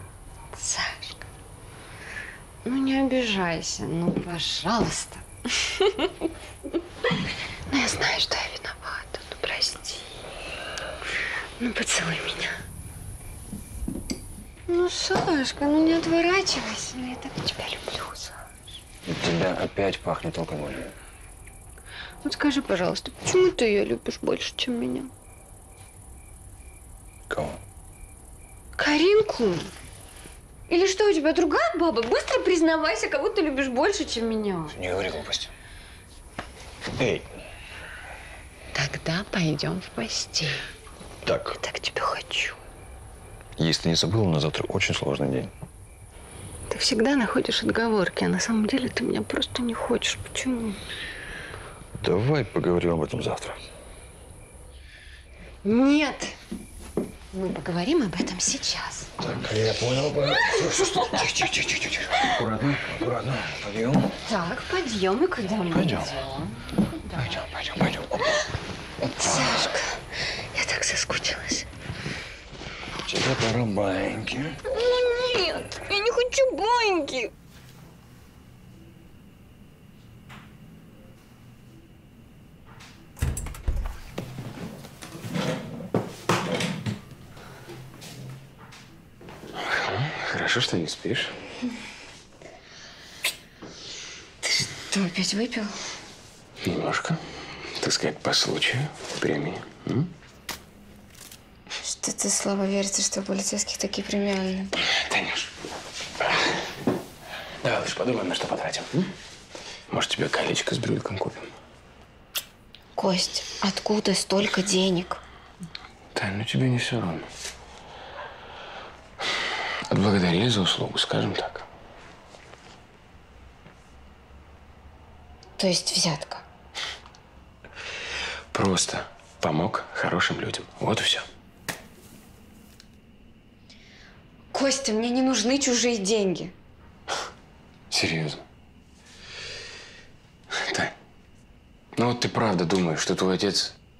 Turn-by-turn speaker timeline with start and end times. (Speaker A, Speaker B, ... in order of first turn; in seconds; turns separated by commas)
Speaker A: 0.5-1.2, Speaker A: 2.6-6.1, Speaker A: 7.7-10.0, Speaker A: 11.6-12.5, Speaker A: 14.7-18.5, Speaker B: 19.0-20.9, Speaker A: 22.2-25.1, Speaker B: 27.3-27.6, Speaker A: 28.8-29.7, Speaker A: 30.7-34.8, Speaker B: 34.7-35.5, Speaker B: 37.0-37.2, Speaker A: 38.7-40.6, Speaker B: 41.2-41.6, Speaker A: 41.6-42.6, Speaker B: 43.6-45.5, Speaker A: 46.7-50.8, Speaker B: 52.0-53.6, Speaker A: 55.6-56.3, Speaker A: 57.3-59.1, Speaker B: 59.2-64.1, Speaker A: 64.2-66.5, Speaker B: 65.7-66.1, Speaker A: 67.0-67.3, Speaker B: 67.2-68.4, Speaker A: 69.2-70.0, Speaker A: 70.5-71.7, Speaker B: 73.0-74.6, Speaker A: 74.7-77.3, Speaker C: 89.6-91.3, Speaker D: 94.4-95.8, Speaker C: 96.6-97.2, Speaker C: 97.8-100.1, Speaker D: 101.8-104.7, Speaker C: 105.0-105.5, Speaker C: 107.6-109.1, Speaker C: 109.9-111.5, Speaker D: 113.0-115.2, Speaker C: 116.1-117.3, Speaker C: 119.9-121.7, Speaker D: 125.6-126.5, Speaker C: 128.5-131.2, Speaker D: 134.5-136.5, Speaker C: 137.9-138.4, Speaker C: 140.5-140.9, Speaker C: 141.9-143.8